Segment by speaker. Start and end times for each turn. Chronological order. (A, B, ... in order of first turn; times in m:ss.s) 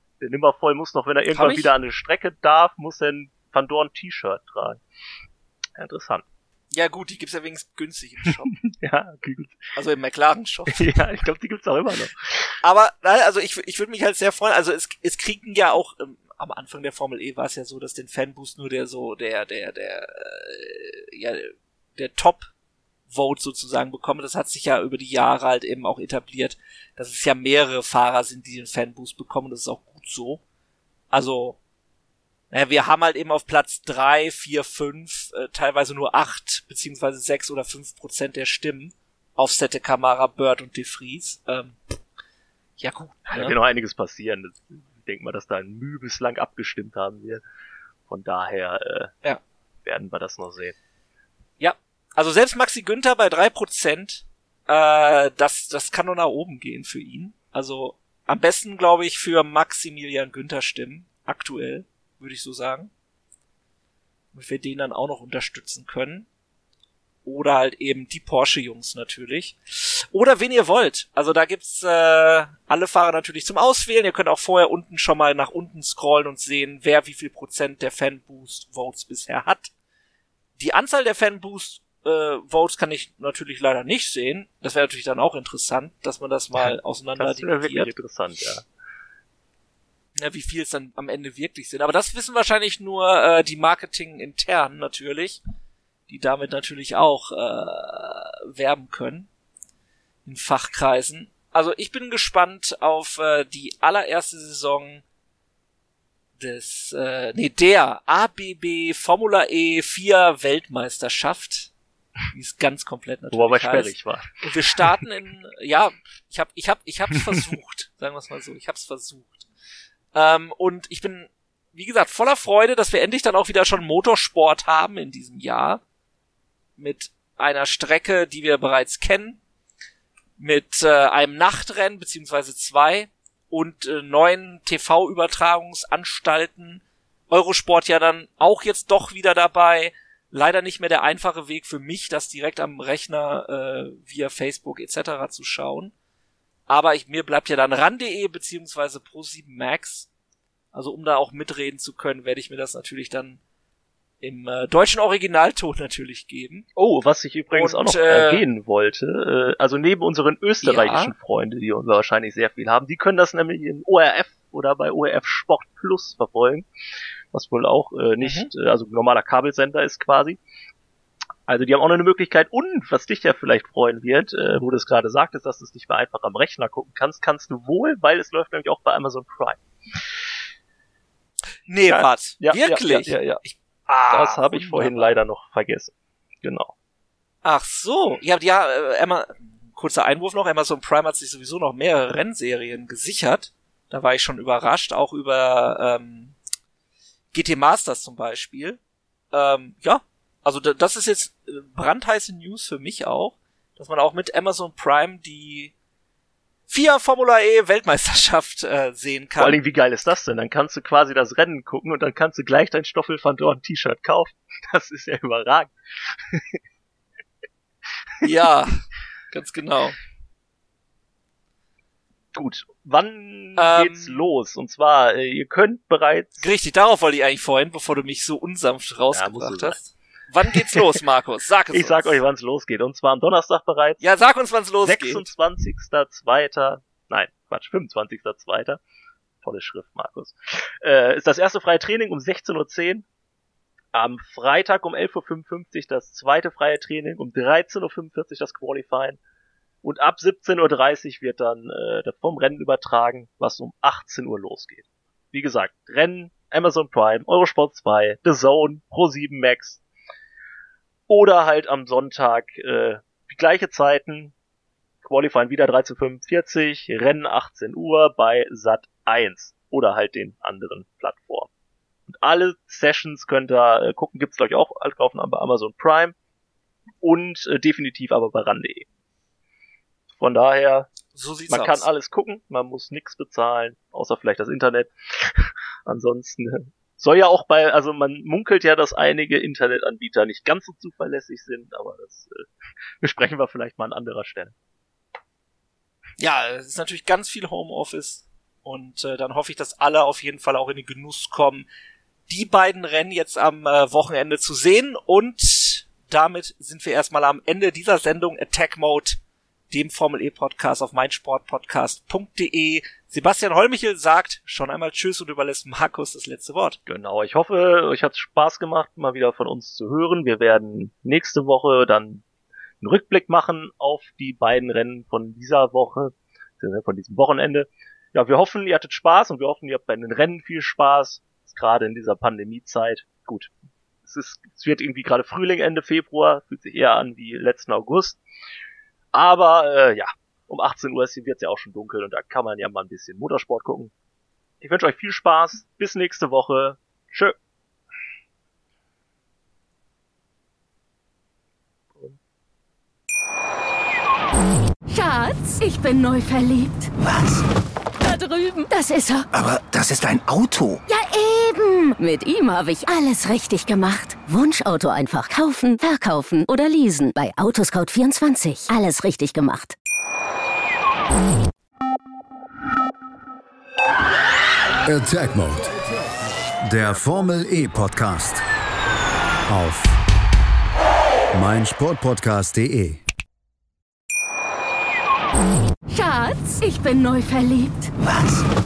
0:00.2-0:04.8 A
0:01.3-0:01.8 B
0:05.8-0:06.2 A
0:06.7-0:08.6 B
0:08.6-0:09.6 A
0:09.8-0:10.9 B
0:10.7-0:12.6 A
0:12.6-0:22.5 B
0:23.1-0:30.4 B
0:31.1-0:31.6 B
0:32.5-0:41.9 B
0:42.8-0:43.6 B
0:43.3-0:47.4 A
0:48.1-0:49.2 A
0:49.8-0:50.8 A
0:51.6-1:02.9 B
1:04.3-1:06.3 B
1:07.2-1:19.7 B
1:20.6-1:27.9 B
1:26.6-1:28.6 A
1:30.2-1:35.4 B
1:36.1-1:39.3 B
1:40.2-1:45.0 B
1:46.4-1:51.7 B
1:52.3-1:59.5 B
1:53.3-1:54.9 A
2:00.1-2:05.8 B
2:06.8-2:09.4 B
2:10.4-2:25.9 B
2:26.7-2:30.1 B
2:30.7-2:33.4 B
2:34.2-2:36.7 B
2:36.8-2:46.7 A
2:37.5-2:38.4 B
2:40.6-2:41.1 B
2:47.3-2:50.4 A
2:48.2-2:48.5 B
2:51.5-2:59.6 A
3:01.7-3:05.2 B
3:01.9-3:03.4 A
3:04.1-3:06.7 A
3:07.4-3:16.4 B
3:17.3-3:18.8 B
3:19.3-3:25.7 B
3:26.7-3:29.6 B
3:29.4-3:36.6 A
3:38.2-3:40.0 B
3:42.3-3:46.5 A
3:43.6-3:44.2 B
3:46.4-3:52.2 B
3:49.1-3:49.8 A
3:51.7-3:54.1 A
3:54.0-3:55.3 B
3:54.8-3:58.8 A
3:59.4-4:03.1 A
4:03.9-4:09.2 A
4:09.8-4:19.8 A
4:21.1-4:24.3 A
4:25.0-4:31.5 A
4:32.1-4:36.2 A
4:37.0-4:38.9 A
4:40.2-4:40.9 A
4:41.1-4:41.9 B
4:41.5-4:52.5 A
4:53.0-4:54.5 A
4:56.2-5:01.7 B
5:02.3-5:09.2 B
5:09.7-5:16.8 B
5:16.9-5:22.2 A
5:22.8-5:33.5 A
5:34.0-5:38.2 A
5:39.1-5:43.9 A
5:44.6-5:47.4 A
5:54.9-5:56.9 C
5:57.0-5:57.5 D
5:58.0-5:59.3 C
5:59.3-6:00.8 D
6:00.9-6:09.8 C
6:14.9-6:15.9 E
6:16.6-6:18.4 E
6:19.5-6:20.0 E
6:21.3-6:23.0 E
6:25.9-6:27.9 C
6:28.0-6:28.5 D